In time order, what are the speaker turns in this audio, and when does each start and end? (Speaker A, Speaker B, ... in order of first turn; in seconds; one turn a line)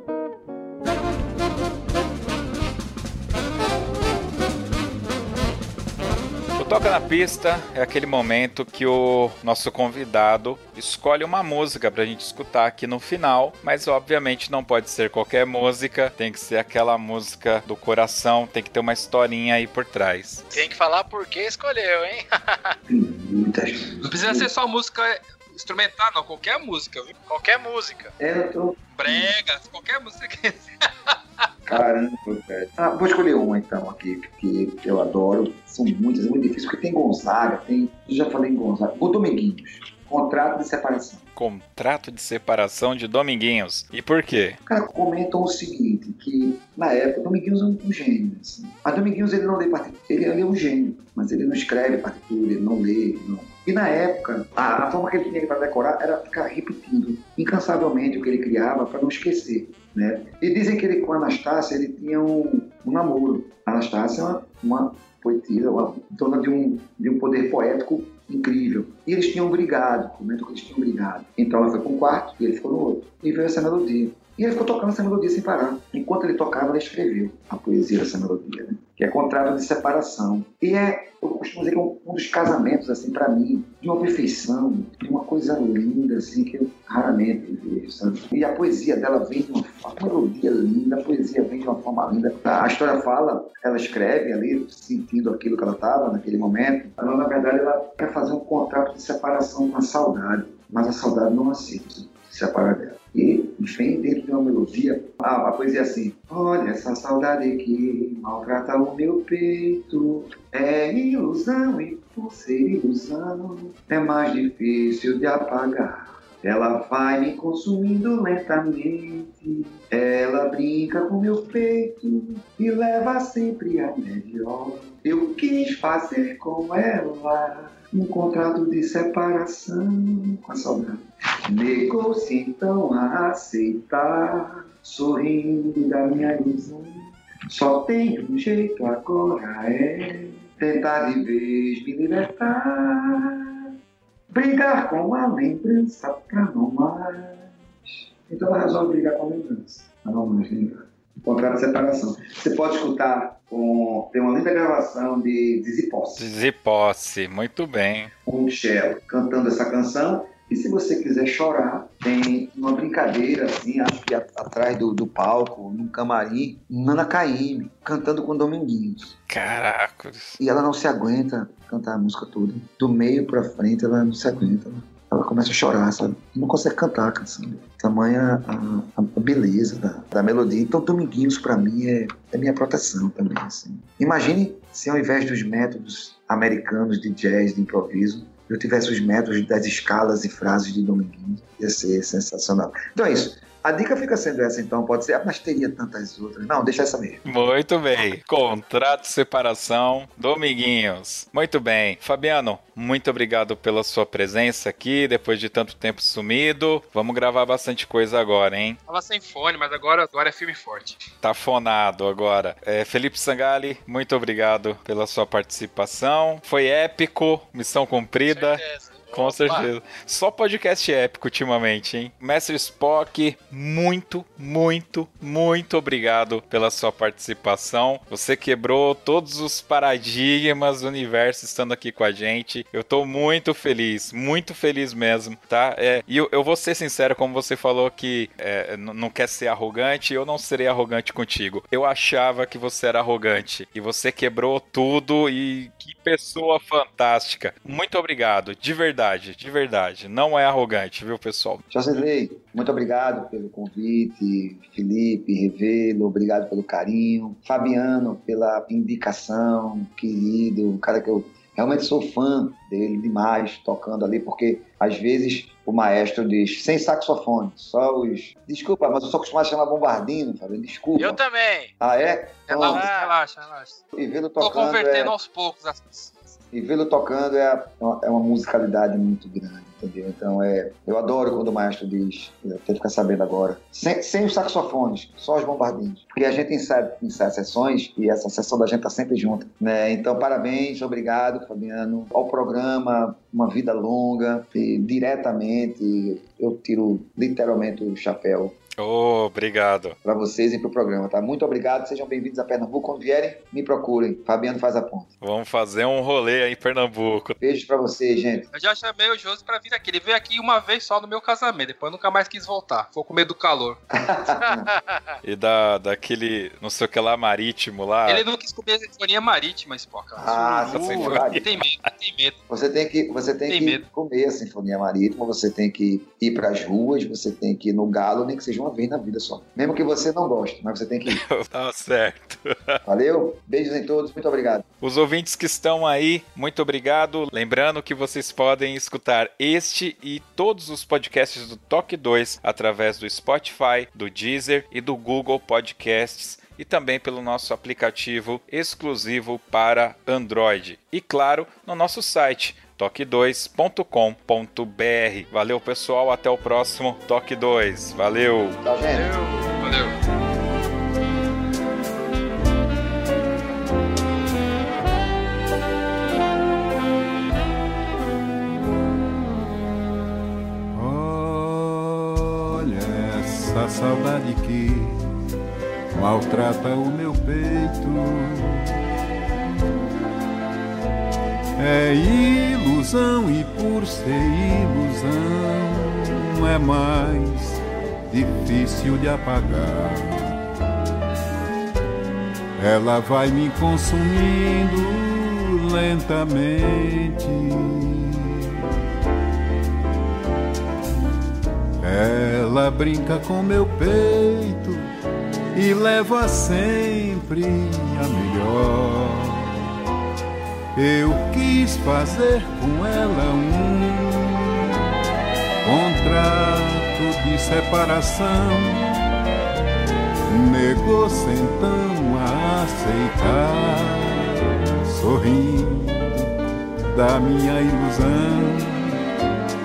Speaker A: 6.6-20.4
Speaker B: 20.5-22.8
Speaker C: 22.9-24.5
Speaker D: 24.0-27.2
Speaker B: 27.3-28.1
Speaker C: 28.2-29.3
Speaker D: 28.9-31.1
Speaker C: 31.7-41.2
Speaker A: 41.4-44.6
Speaker C: 44.7-143.4
Speaker C: 144.3-156.3
Speaker A: 156.2-158.1
Speaker C: 158.2-169.2
Speaker A: 169.3-170.4
Speaker C: 170.4-197.2
Speaker A: 197.2-208.8
Speaker D: 208.9-211.0
Speaker A: 211.2-218.6
Speaker B: 218.3-219.7
Speaker A: 219.1-251.6
Speaker C: 251.7-271.2
Speaker B: 271.0-271.7
Speaker C: 271.8-272.9
Speaker D: 272.5-273.8
Speaker B: 272.6-273.1
Speaker C: 273.9-275.1
Speaker D: 274.4-276.2
Speaker C: 276.5-298.6
Speaker A: 298.8-300.0
Speaker C: 300.0-305.1
Speaker A: 305.2-307.4
Speaker C: 307.4-308.5
Speaker D: 308.5-313.8
Speaker C: 313.9-314.7
Speaker A: 315.2-318.2
Speaker D: 318.1-322.4
Speaker C: 320.2-321.5
Speaker A: 320.7-321.6
Speaker C: 322.5-331.2
Speaker D: 323.5-323.9
Speaker A: 331.1-332.8
Speaker C: 332.9-334.6
Speaker A: 334.8-358.6
Speaker C: 358.6-359.1
Speaker B: 358.9-359.7
Speaker D: 359.6-359.9
Speaker E: 370.7-375.0
Speaker E: 375.9-378.7
Speaker E: 381.6-390.4
Speaker E: 392.6-398.6
Speaker E: 401.8-404.9
Speaker E: 405.5-409.5
Speaker E: 410.8-414.7
Speaker E: 415.6-418.9
Speaker E: 420.3-426.3
Speaker E: 426.9-429.0